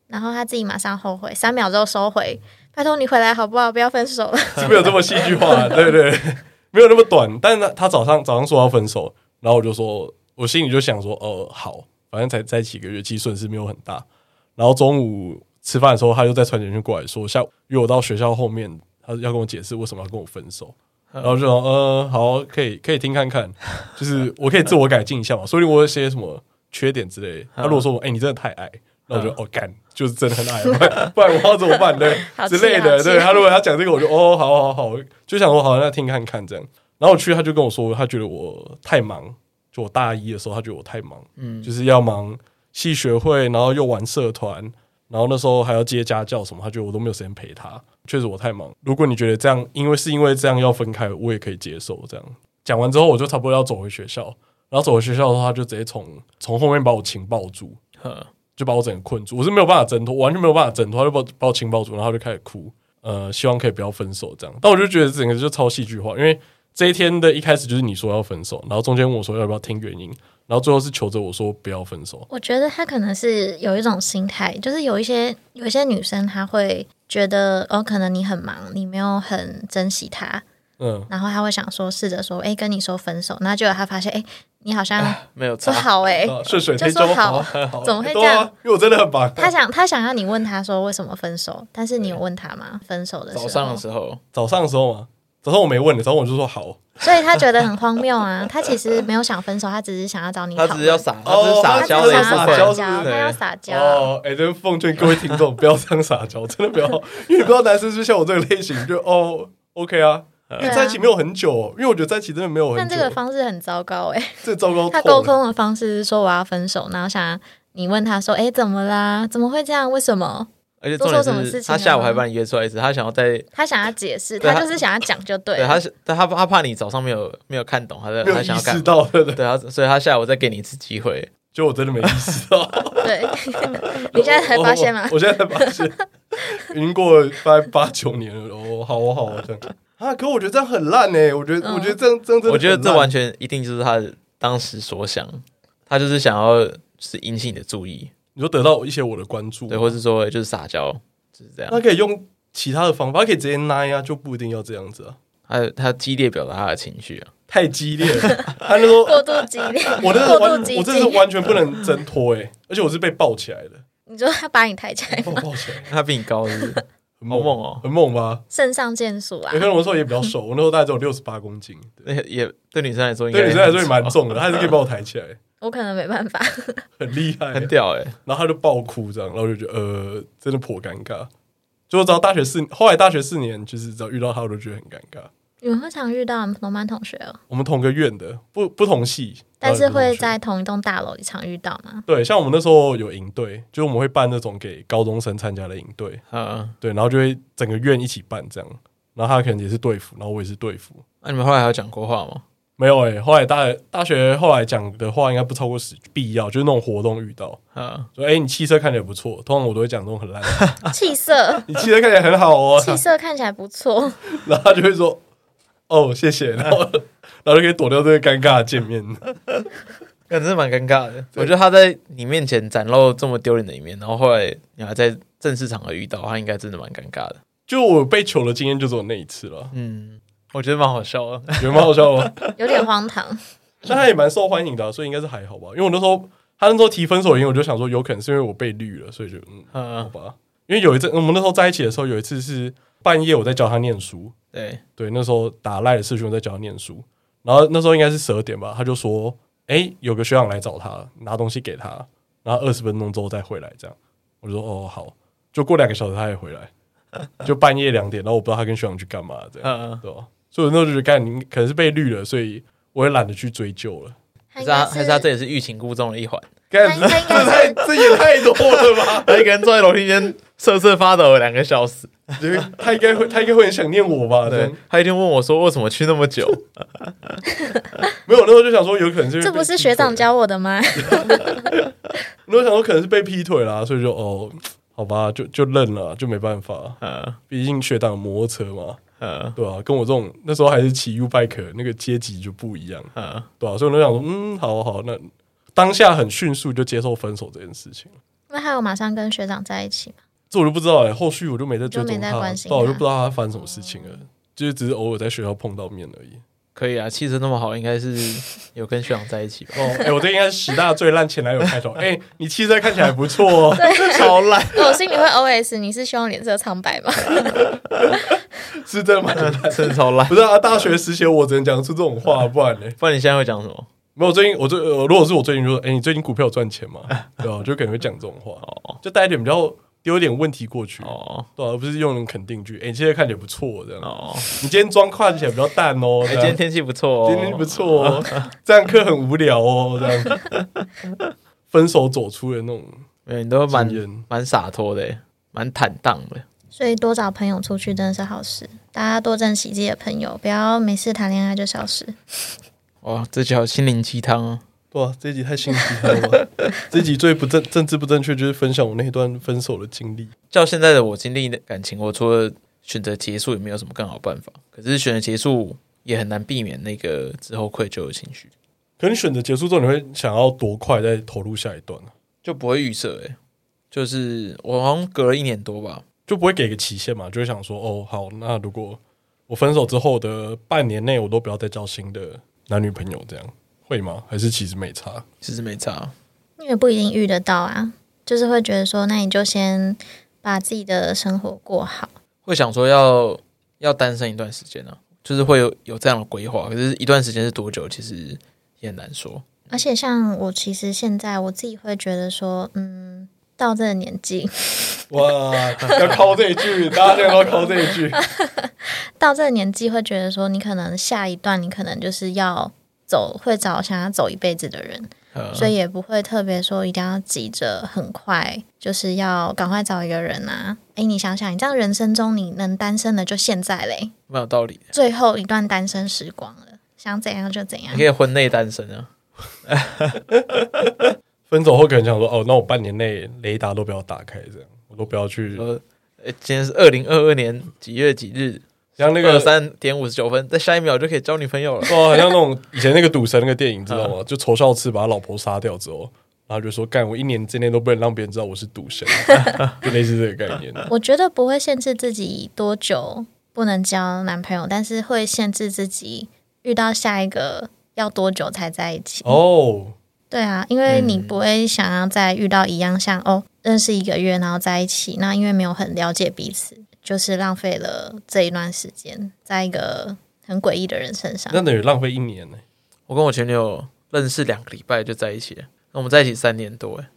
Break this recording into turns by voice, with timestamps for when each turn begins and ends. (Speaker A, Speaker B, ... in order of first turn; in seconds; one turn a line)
Speaker A: 0.1-5.7
Speaker B: 4.6-14.1
Speaker B: 14.6-57.8
Speaker C: 27.6-27.8
Speaker A: 32.2-33.5
Speaker C: 41.4-41.7
Speaker C: 58.0-58.3
Speaker B: 58.6-72.3
Speaker A: 72.3-80.4
Speaker B: 80.8-81.1
Speaker A: 81.1-88.5
Speaker C: 85.0-85.9
Speaker B: 86.2-89.5
Speaker A: 89.4-93.8
Speaker C: 93.3-94.2
Speaker B: 94.3-96.9
Speaker A: 97.0-101.1
Speaker C: 100.6-103.4
Speaker B: 101.2-103.1
Speaker A: 101.7-104.1
Speaker B: 103.7-113.2
Speaker C: 110.5-110.8
Speaker A: 110.6-111.0
Speaker A: 112.8-122.2
Speaker B: 114.4-115.4
Speaker C: 120.8-123.5
Speaker A: 123.5-125.8
Speaker C: 124.4-124.8
Speaker C: 125.6-131.3
Speaker B: 128.2-129.4
Speaker B: 131.5-133.3
Speaker A: 133.0-135.9
Speaker B: 134.1-143.1
Speaker A: 141.6-142.0
Speaker C: 142.5-148.1
Speaker B: 148.3-150.0
Speaker C: 149.7-151.8
Speaker B: 151.7-155.2
Speaker C: 155.5-157.3
Speaker B: 157.5-159.2
Speaker C: 158.1-158.5
Speaker A: 159.0-161.3
Speaker B: 160.0-163.8
Speaker A: 164.1-165.4
Speaker B: 165.1-165.9
Speaker C: 165.9-167.8
Speaker B: 167.2-168.4
Speaker A: 168.5-169.7
Speaker B: 169.5-172.1
Speaker C: 172.1-174.7
Speaker B: 173.3-175.4
Speaker A: 175.6-176.9
Speaker B: 177.0-177.7
Speaker C: 177.5-178.2
Speaker B: 178.3-181.3
Speaker B: 181.9-185.3
Speaker A: 185.6-187.4
Speaker B: 187.5-190.3
Speaker A: 189.6-192.1
Speaker B: 192.1-196.2
Speaker C: 196.3-196.8
Speaker B: 196.8-201.0
Speaker C: 201.2-202.4
Speaker B: 202.8-207.6
Speaker C: 207.8-208.1
Speaker B: 208.2-210.7
Speaker C: 210.6-210.8
Speaker A: 210.9-211.7
Speaker B: 211.7-213.0
Speaker A: 212.8-214.2
Speaker B: 214.3-215.2
Speaker B: 215.9-219.2
Speaker C: 220.3-227.4
Speaker B: 227.7-229.7
Speaker C: 229.7-232.8
Speaker B: 231.6-232.3
Speaker A: 232.6-233.4
Speaker B: 233.8-244.3
Speaker C: 239.7-240.1
Speaker C: 244.5-244.8
Speaker B: 245.0-256.7
Speaker B: 257.4-264.2
Speaker C: 259.6-260.0
Speaker A: 264.5-265.3
Speaker C: 264.6-272.4
Speaker B: 266.7-269.5
Speaker A: 266.8-267.8
Speaker B: 272.4-274.8
Speaker C: 274.5-277.4
Speaker B: 278.3-280.2
Speaker A: 279.4-281.6
Speaker B: 282.5-289.0
Speaker C: 287.0-287.4
Speaker C: 289.2-289.6
Speaker B: 289.6-298.1
Speaker C: 293.1-293.5
Speaker A: 298.5-300.2
Speaker B: 300.5-306.4
Speaker A: 301.9-303.0
Speaker C: 306.8-309.9
Speaker B: 309.8-314.2
Speaker A: 313.8-317.6
Speaker C: 314.0-315.0
Speaker B: 318.8-323.0
Speaker C: 319.4-320.4
Speaker C: 323.0-323.9
Speaker B: 324.2-336.6
Speaker C: 328.6-329.0
Speaker C: 331.0-331.5
Speaker C: 334.0-334.7
Speaker C: 336.3-338.5
Speaker B: 337.2-340.4
Speaker C: 340.2-341.1
Speaker B: 341.7-343.0
Speaker C: 343.3-346.5
Speaker B: 343.7-344.3
Speaker A: 346.7-352.1
Speaker C: 353.0-354.6
Speaker B: 354.9-360.3
Speaker C: 360.5-368.5
Speaker B: 369.0-372.1
Speaker C: 372.4-373.4
Speaker C: 373.9-376.0
Speaker B: 376.3-385.2
Speaker C: 385.4-386.1
Speaker A: 386.6-392.1
Speaker C: 392.5-399.5
Speaker A: 399.7-405.0
Speaker B: 405.1-408.2
Speaker A: 408.2-424.1
Speaker C: 415.3-415.7
Speaker C: 424.3-424.9
Speaker A: 424.9-428.1
Speaker C: 427.9-429.1
Speaker C: 429.7-430.2
Speaker B: 431.5-435.7
Speaker C: 435.5-442.0
Speaker B: 439.0-439.5
Speaker B: 441.9-450.9
Speaker A: 450.9-459.4
Speaker B: 459.2-460.0
Speaker A: 460.3-471.6
Speaker C: 460.9-461.4
Speaker B: 471.5-472.6
Speaker C: 473.1-477.1